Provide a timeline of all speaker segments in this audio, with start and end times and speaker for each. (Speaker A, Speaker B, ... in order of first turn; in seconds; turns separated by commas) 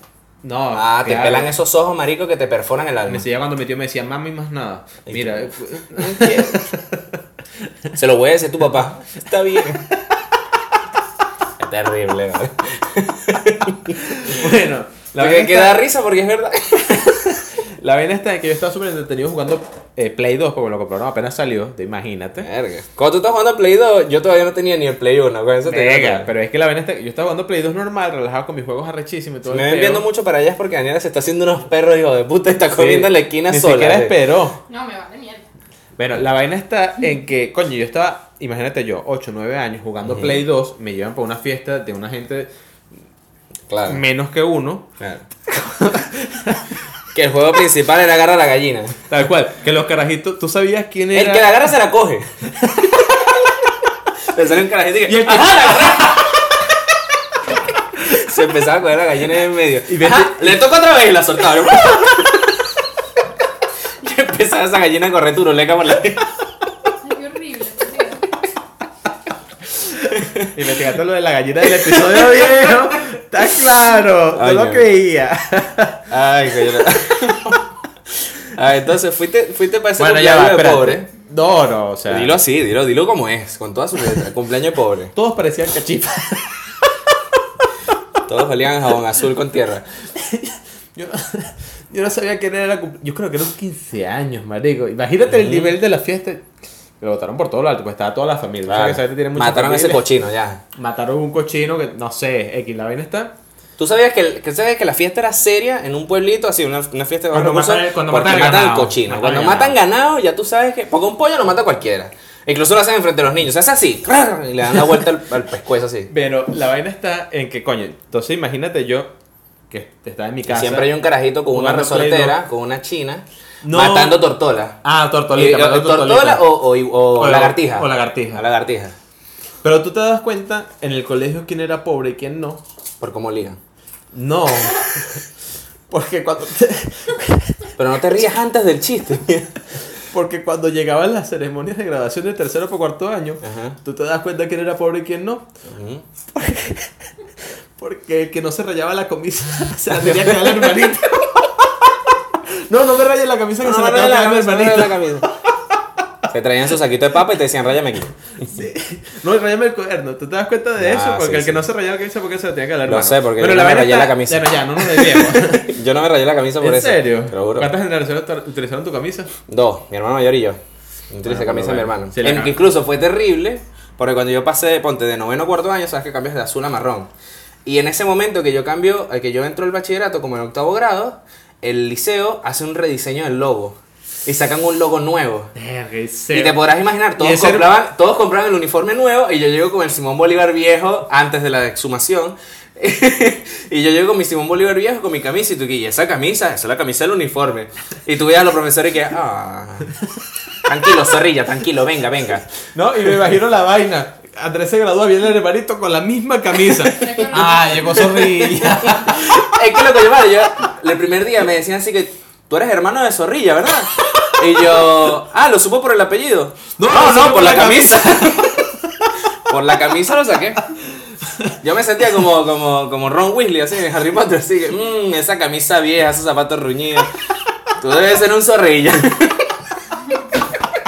Speaker A: 0.4-1.5, Speaker B: 0.7-3.2, Speaker A: 3.1-7.7, Speaker B: 5.1-6.6, Speaker B: 7.9-9.9, Speaker A: 9.4-9.9, Speaker B: 11.6-14.4, Speaker A: 13.9-15.8, Speaker B: 15.2-17.5, Speaker A: 17.6-22.5, Speaker B: 22.4-26.3, Speaker A: 25.6-30.1, Speaker B: 29.4-34.1, Speaker A: 32.8-34.6, Speaker C: 34.7-35.4, Speaker A: 36.0-42.5, Speaker B: 40.0-40.4, Speaker B: 43.7-44.0, Speaker A: 43.9-44.9, Speaker B: 45.0-45.2, Speaker A: 45.5-46.8, Speaker B: 47.1-49.0, Speaker A: 49.1-51.6, Speaker B: 51.1-53.5, Speaker A: 52.6-53.1, Speaker B: 54.3-56.7, Speaker A: 55.0-56.5, Speaker B: 58.0-62.9, Speaker A: 59.9-60.6, Speaker B: 64.0-66.9, Speaker C: 67.0-68.3, Speaker B: 70.1-70.5, Speaker A: 70.5-77.3, Speaker B: 71.8-72.9, Speaker B: 74.3-74.8, Speaker B: 76.1-77.6, Speaker B: 78.4-81.1, Speaker A: 80.0-82.3, Speaker B: 82.1-85.1, Speaker A: 85.1-86.9, Speaker B: 88.2-89.9, Speaker A: 90.1-96.5, Speaker B: 95.3-95.8, Speaker A: 97.0-100.0, Speaker B: 98.7-100.6, Speaker A: 100.8-103.3, Speaker B: 103.8-116.1, Speaker A: 107.3-109.8, Speaker A: 116.1-119.1, Speaker A: 119.7-120.9, Speaker B: 120.5-124.8, Speaker A: 121.5-122.4, Speaker A: 123.6-124.2, Speaker A: 124.8-126.5, Speaker B: 125.3-128.9, Speaker A: 127.1-128.4, Speaker A: 129.6-132.6, Speaker B: 133.0-133.6, Speaker A: 134.1-135.2, Speaker A: 135.9-137.7, Speaker B: 137.8-139.6, Speaker A: 139.9-145.4, Speaker B: 143.4-143.8, Speaker B: 145.7-146.0, Speaker A: 146.3-146.9, Speaker A: 147.8-155.8, Speaker B: 150.0-150.7, Speaker B: 153.6-155.3, Speaker B: 156.3-158.6, Speaker A: 158.4-165.7, Speaker B: 160.8-161.6, Speaker B: 162.8-167.7, Speaker A: 166.6-169.3, Speaker B: 169.5-170.6, Speaker B: 171.1-177.1, Speaker A: 171.2-172.6, Speaker B: 177.7-185.5, Speaker A: 185.5-187.7, Speaker B: 186.3-200.0, Speaker B: 200.6-202.5, Speaker A: 202.7-209.5, Speaker B: 206.7-218.7, Speaker C: 207.0-207.5, Speaker A: 214.2-214.9, Speaker A: 216.8-219.1, Speaker B: 219.4-220.7, Speaker A: 221.0-221.5, Speaker B: 221.6-227.1, Speaker B: 227.7-229.6